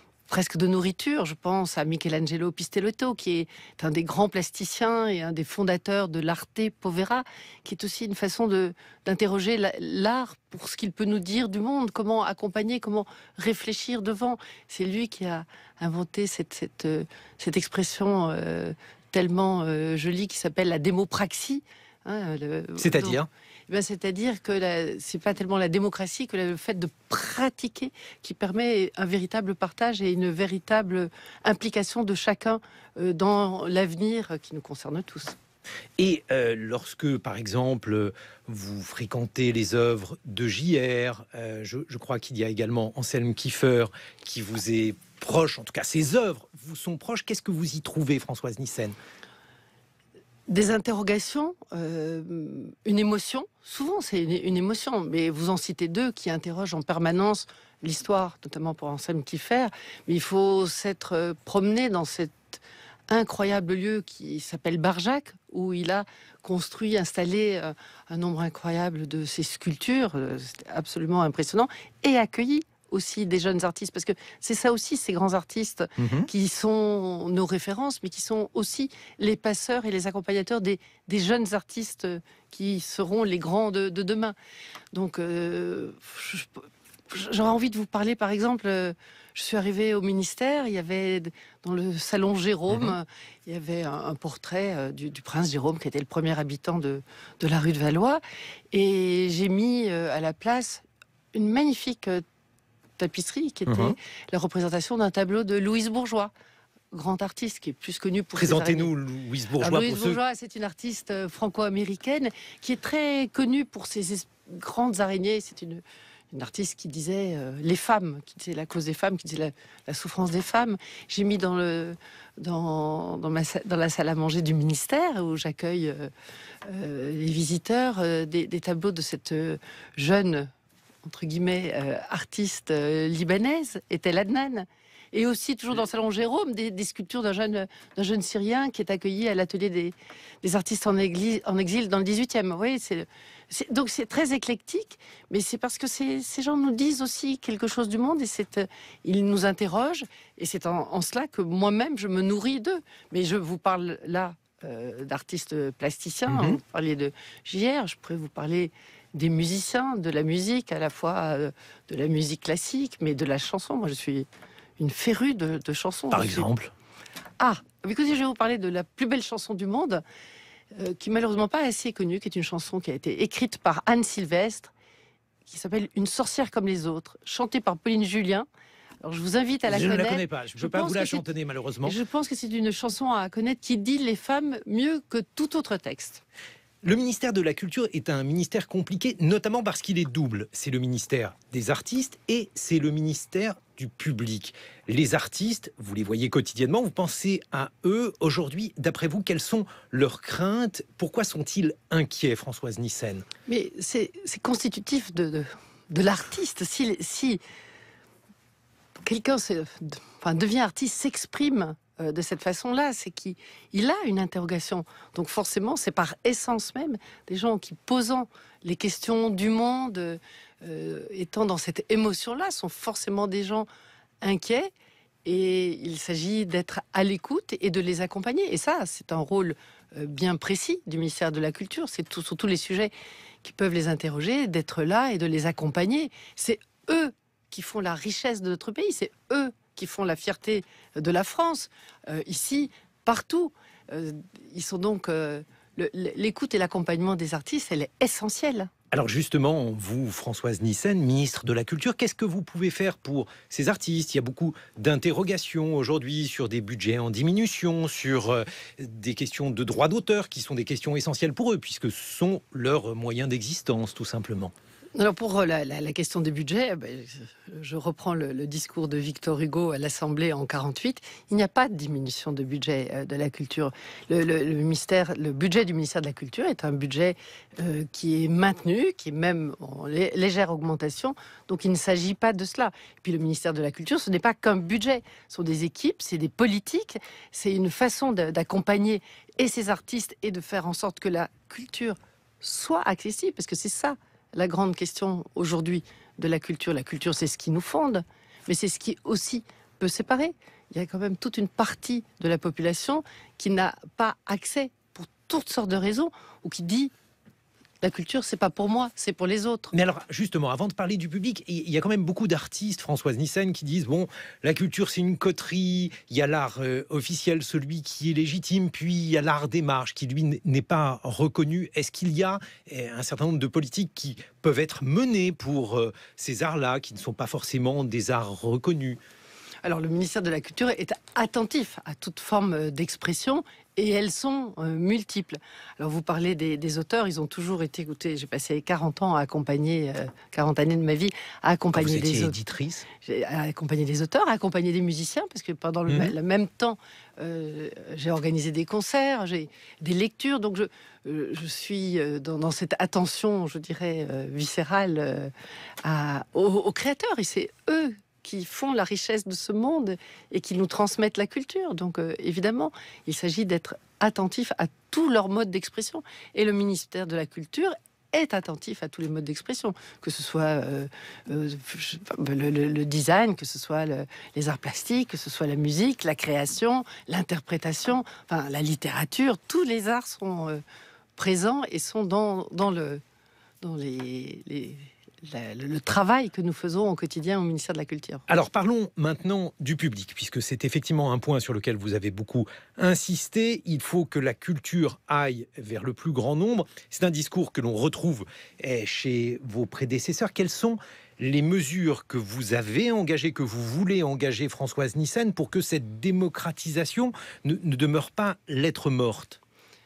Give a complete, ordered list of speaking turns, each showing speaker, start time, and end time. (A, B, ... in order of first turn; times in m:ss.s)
0:00.3-0:35.4 A
0:22.8-0:23.3 B
0:36.0-0:49.0 B
0:50.5-1:24.4 A
1:16.0-1:16.3 B
1:24.9-1:42.2 A
1:32.7-1:33.0 B
1:43.0-1:46.3 A
1:43.7-1:44.0 B
1:46.9-1:48.9 A
1:48.4-1:50.2 B
1:49.6-2:06.1 A
2:06.6-2:10.5 A
2:11.0-2:44.3 A
2:36.3-2:36.6 B
2:44.8-2:46.5 A
2:46.1-2:46.7 B
2:47.4-2:50.0 A
2:50.8-2:54.7 A
2:55.5-2:58.5 A
2:59.0-3:01.2 A
2:59.7-3:02.0 B
3:01.8-3:06.2 A
3:06.8-3:23.3 B
3:23.5-3:27.4 A
3:29.0-3:43.7 A
3:44.2-3:44.7 A
3:45.2-4:08.7 A
4:08.9-4:24.5 B
4:25.0-5:06.9 A
5:07.8-5:09.7 A
5:09.7-5:29.0 B
5:29.6-5:42.4 A
5:41.7-5:42.9 B
5:43.0-5:55.3 A
5:45.9-5:46.1 B
5:55.8-6:20.6 A
6:21.2-6:23.0 A
6:23.6-6:28.3 A
6:28.3-6:49.4 B